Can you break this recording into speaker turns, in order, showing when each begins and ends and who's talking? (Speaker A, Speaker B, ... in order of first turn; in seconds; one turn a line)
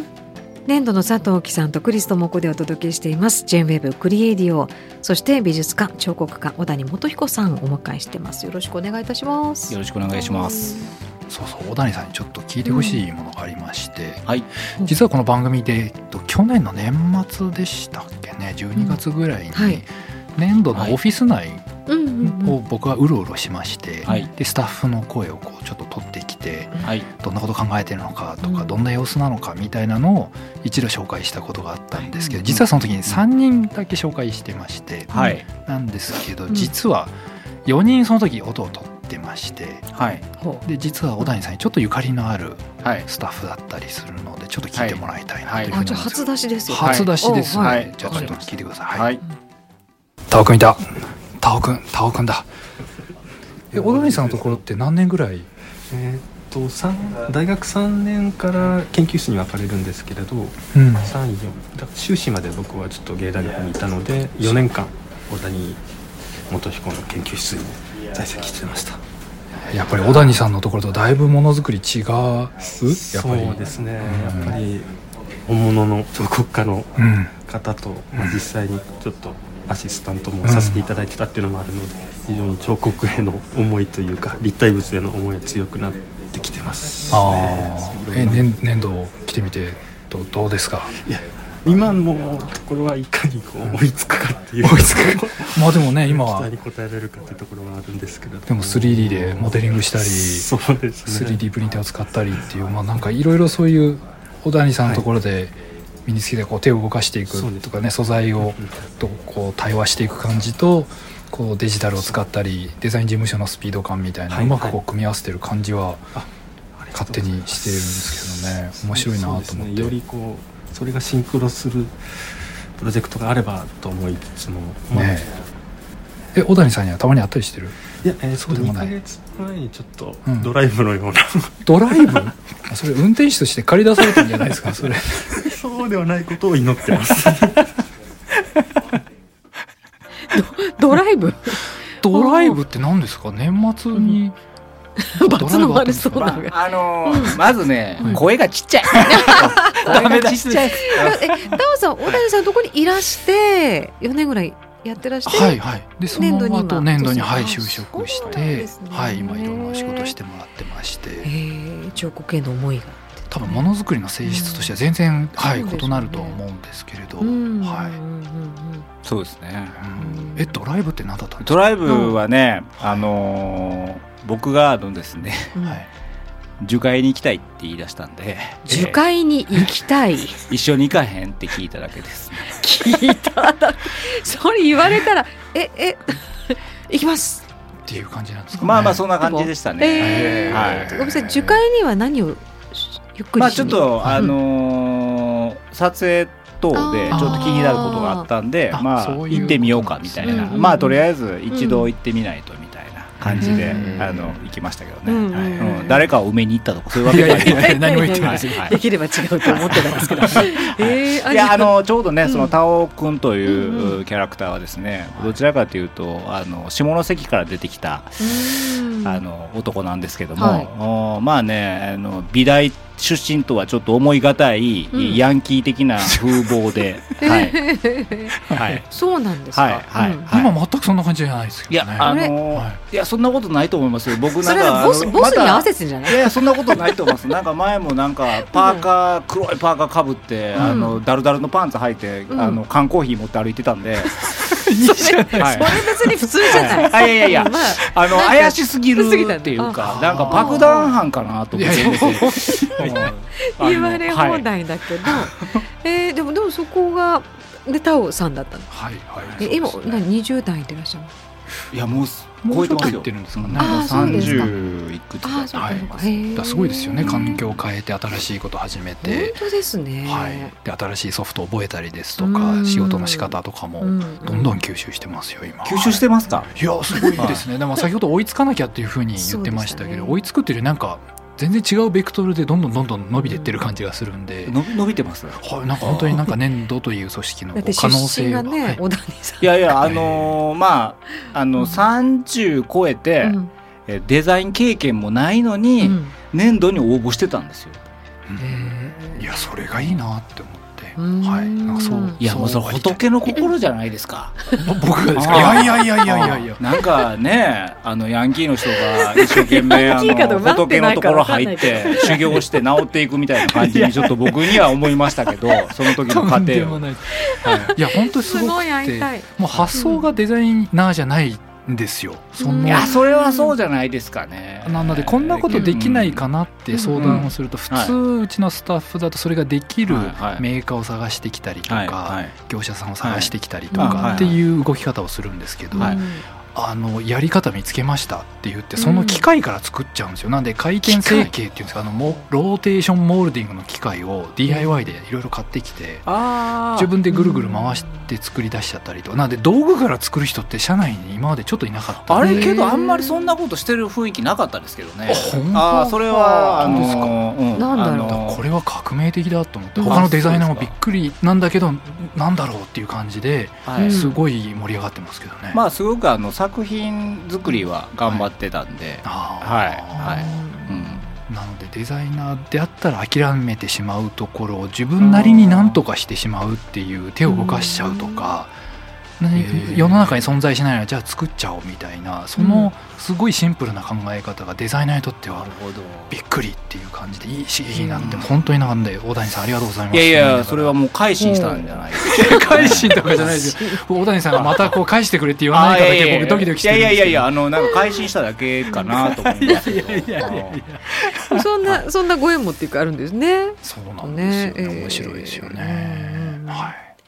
Speaker A: 0.7-9.8
Speaker B: 9.7-10.9
Speaker A: 10.3-10.9
Speaker C: 11.3-14.2
Speaker A: 12.7-13.0
Speaker C: 14.8-21.7
Speaker A: 19.5-19.8
Speaker A: 21.9-22.6
Speaker C: 22.2-39.9
Speaker A: 28.4-28.8
Speaker B: 32.4-32.7
Speaker A: 35.1-35.4
Speaker B: 35.1-35.4
Speaker B: 39.9-40.3
Speaker A: 40.4-40.6
Speaker C: 40.6-49.1
Speaker B: 42.8-43.1
Speaker B: 44.8-45.8
Speaker A: 45.7-48.3
Speaker B: 46.8-49.2
Speaker C: 50.3-52.5
Speaker C: 53.7-55.5
Speaker D: 53.7-54.6
Speaker D: 55.9-65.8
Speaker C: 60.7-61.1
Speaker D: 66.5-69.0
Speaker C: 69.7-74.6
Speaker D: 72.9-74.9
Speaker D: 75.5-88.5
Speaker C: 77.0-77.3
Speaker C: 78.1-78.4
Speaker C: 80.4-80.8
Speaker C: 87.1-91.0
Speaker D: 91.0-101.4
Speaker C: 94.6-96.5
Speaker C: 98.5-100.5
Speaker C: 101.0-116.1
Speaker D: 107.3-107.8
Speaker D: 108.4-108.8
Speaker D: 114.3-114.8
Speaker D: 116.2-125.3
Speaker C: 116.9-120.0
Speaker C: 124.9-125.3
Speaker C: 126.3-127.8
Speaker D: 128.0-132.3
Speaker C: 128.4-128.9
Speaker C: 130.2-130.5
Speaker C: 131.7-135.6
Speaker D: 134.1-137.8
Speaker A: 140.3-142.6
Speaker C: 142.0-144.4
Speaker A: 143.9-144.2
Speaker A: 145.0-147.4
Speaker C: 145.3-146.4
Speaker B: 146.3-151.5
Speaker A: 148.0-148.2
Speaker C: 148.0-148.3
Speaker C: 148.9-151.1
Speaker A: 148.9-155.6
Speaker C: 155.3-161.3
Speaker A: 156.1-160.1
Speaker A: 161.2-163.7
Speaker C: 163.3-168.0
Speaker A: 164.2-164.8
Speaker A: 165.4-166.4
Speaker A: 167.2-168.9
Speaker B: 169.1-169.8
Speaker C: 169.8-171.6
Speaker A: 170.0-170.6
Speaker B: 171.4-175.6
Speaker A: 171.9-172.2
Speaker A: 175.6-175.8
Speaker C: 175.6-175.9
Speaker B: 176.6-179.0
Speaker A: 178.7-180.5
Speaker B: 180.5-182.6
Speaker A: 182.5-187.4
Speaker C: 187.9-189.1
Speaker B: 188.6-191.0
Speaker A: 188.8-194.4
Speaker C: 190.0-191.6
Speaker B: 193.4-208.8
Speaker C: 194.0-194.3
Speaker A: 196.8-198.3
Speaker C: 197.1-197.8
Speaker C: 198.7-200.6
Speaker A: 200.2-201.9
Speaker C: 203.2-204.3
Speaker A: 203.4-204.2
Speaker A: 205.1-206.1
Speaker C: 207.0-208.8
Speaker A: 207.1-212.6
Speaker B: 209.4-227.6
Speaker C: 209.5-210.5
Speaker A: 213.5-214.0
Speaker A: 218.2-219.2
Speaker A: 220.4-220.7
Speaker A: 224.9-225.2
Speaker C: 226.1-226.4
Speaker A: 227.2-230.3
Speaker C: 228.4-228.8
Speaker B: 228.5-228.9
Speaker B: 229.5-230.5
Speaker C: 230.3-232.8
Speaker B: 231.7-244.2
Speaker A: 232.0-232.3
Speaker A: 234.4-236.9
Speaker A: 238.4-238.9
Speaker A: 240.6-241.0
Speaker A: 242.3-242.6
Speaker A: 244.1-250.9
Speaker C: 244.4-247.0
Speaker B: 245.4-245.7
Speaker B: 246.5-254.5
Speaker C: 249.8-250.8
Speaker C: 251.5-253.1
Speaker A: 251.8-258.7
Speaker B: 255.1-255.6
Speaker C: 258.7-260.0
Speaker B: 259.2-259.5
Speaker A: 259.4-261.1
Speaker B: 261.7-266.3
Speaker C: 262.4-264.7
Speaker A: 263.6-264.5
Speaker A: 265.2-267.4
Speaker C: 265.6-269.4
Speaker B: 267.0-267.6
Speaker A: 269.0-270.5
Speaker C: 270.1-284.6
Speaker A: 272.2-274.6
Speaker B: 275.6-276.5
Speaker A: 276.9-277.2
Speaker B: 277.2-277.4
Speaker A: 279.2-280.2
Speaker A: 283.1-283.6
Speaker B: 284.4-286.3
Speaker C: 285.4-288.8
Speaker A: 287.5-289.5
Speaker B: 289.4-297.8
Speaker C: 289.7-290.4
Speaker A: 291.6-291.8
Speaker A: 293.2-293.5
Speaker A: 295.8-296.1
Speaker C: 298.3-303.0
Speaker A: 298.4-299.3
Speaker A: 301.0-302.2
Speaker B: 302.2-304.4
Speaker C: 304.6-306.6
Speaker B: 305.1-316.9
Speaker A: 305.6-306.4
Speaker A: 308.7-312.5
Speaker C: 313.6-314.7
Speaker C: 315.9-323.0
Speaker A: 317.1-320.1
Speaker B: 317.4-317.7
Speaker A: 322.4-323.5
Speaker B: 322.7-326.2
Speaker C: 324.6-346.1
Speaker A: 325.5-325.8
Speaker A: 326.7-327.3
Speaker B: 327.0-327.9
Speaker B: 329.9-330.4
Speaker B: 331.7-332.3
Speaker B: 333.0-334.4
Speaker A: 333.7-334.3
Speaker A: 335.7-336.2
Speaker A: 338.8-339.2
Speaker B: 341.0-341.3
Speaker A: 344.5-344.8
Speaker B: 346.1-346.9
Speaker C: 346.8-352.6
Speaker A: 347.1-348.1
Speaker B: 352.1-358.4
Speaker A: 352.2-353.4
Speaker C: 355.1-355.9
Speaker A: 355.7-358.2
Speaker C: 356.6-357.2
Speaker C: 358.1-365.6
Speaker A: 359.8-360.1
Speaker B: 359.8-360.8
Speaker B: 363.7-364.0
Speaker A: 363.8-364.2
Speaker B: 365.5-371.0
Speaker C: 369.0-370.4
Speaker A: 370.0-371.0
Speaker C: 371.2-378.6
Speaker B: 375.0-375.8
Speaker A: 377.2-378.3
Speaker C: 379.2-385.5
Speaker B: 379.4-380.3
Speaker A: 382.4-382.7
Speaker B: 385.3-386.2
Speaker C: 386.1-390.7
Speaker A: 387.7-388.1
Speaker B: 388.0-388.3
Speaker B: 389.9-393.3
Speaker A: 391.3-391.6
Speaker C: 392.0-397.3
Speaker A: 393.2-393.8
Speaker B: 394.3-394.8
Speaker B: 395.5-400.6
Speaker C: 399.1-401.9
Speaker A: 400.9-406.7
Speaker C: 403.6-406.8